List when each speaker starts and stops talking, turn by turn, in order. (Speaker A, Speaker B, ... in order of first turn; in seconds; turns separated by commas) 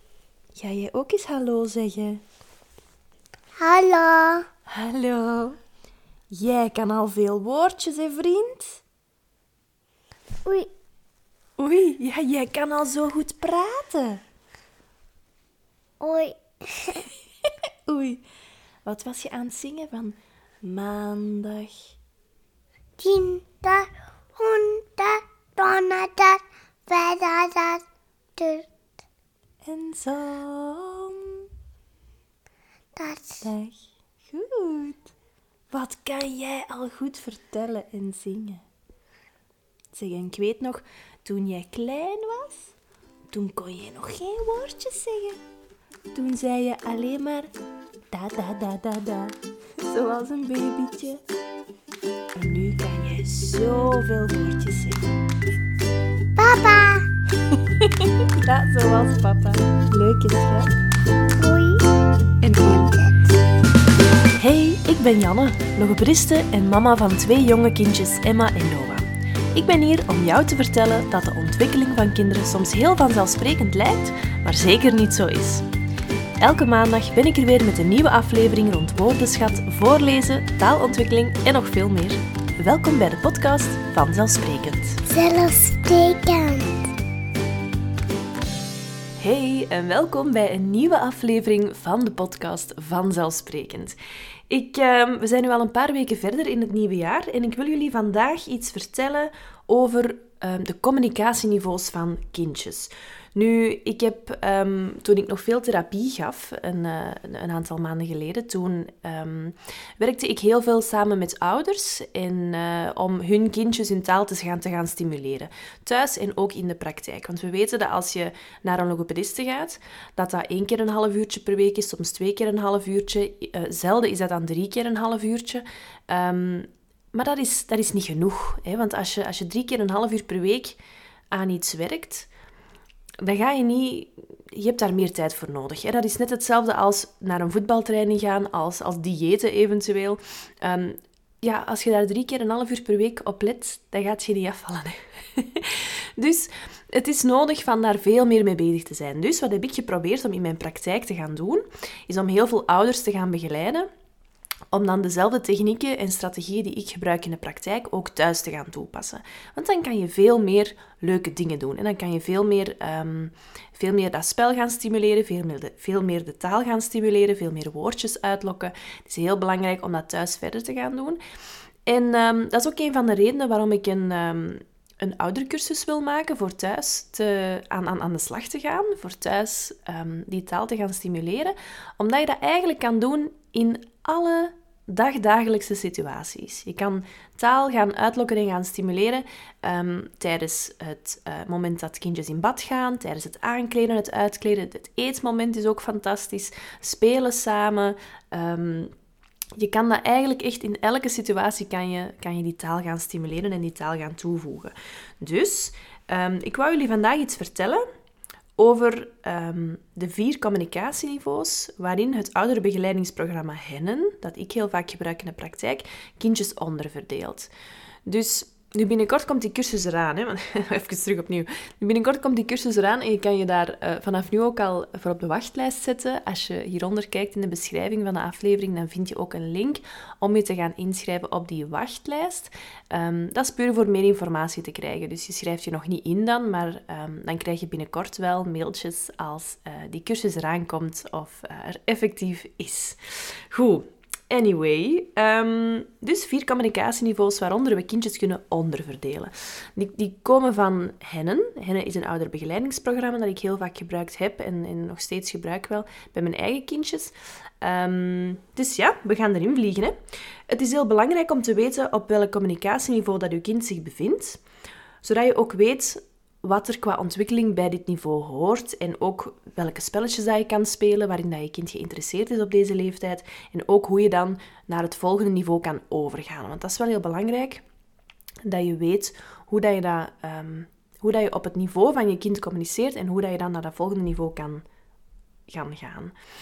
Speaker A: 0.6-2.2, Speaker B: 3.6-4.5, Speaker A: 4.7-5.6, Speaker A: 6.3-8.8, Speaker B: 10.4-10.7, Speaker A: 11.6-14.2, Speaker B: 16.0-17.0, Speaker A: 17.4-18.2, Speaker A: 18.8-21.9, Speaker B: 23.0-27.8, Speaker B: 28.4-28.7, Speaker A: 29.6-31.4, Speaker B: 33.0-33.4, Speaker A: 33.4-35.1, Speaker A: 35.7-38.6, Speaker A: 39.9-42.7, Speaker A: 43.3-45.4, Speaker A: 46.1-47.5, Speaker A: 48.1-51.2, Speaker A: 52.3-55.1, Speaker B: 56.4-57.1, Speaker A: 57.8-60.7, Speaker B: 61.4-61.9, Speaker A: 62.4-62.8, Speaker B: 62.6-63.3, Speaker A: 64.4-75.7, Speaker A: 76.4-85.0, Speaker B: 85.0-86.9, Speaker A: 89.2-94.0, Speaker A: 94.5-130.8, Speaker A: 131.3-132.3, Speaker A: 133.2-153.9, Speaker A: 154.7-171.2, Speaker A: 171.8-198.9, Speaker A: 199.6-207.8, Speaker A: 208.6-217.5, Speaker A: 218.1-259.9, Speaker A: 260.5-264.4, Speaker A: 265.0-277.6, Speaker A: 278.4-284.6, Speaker A: 285.5-286.1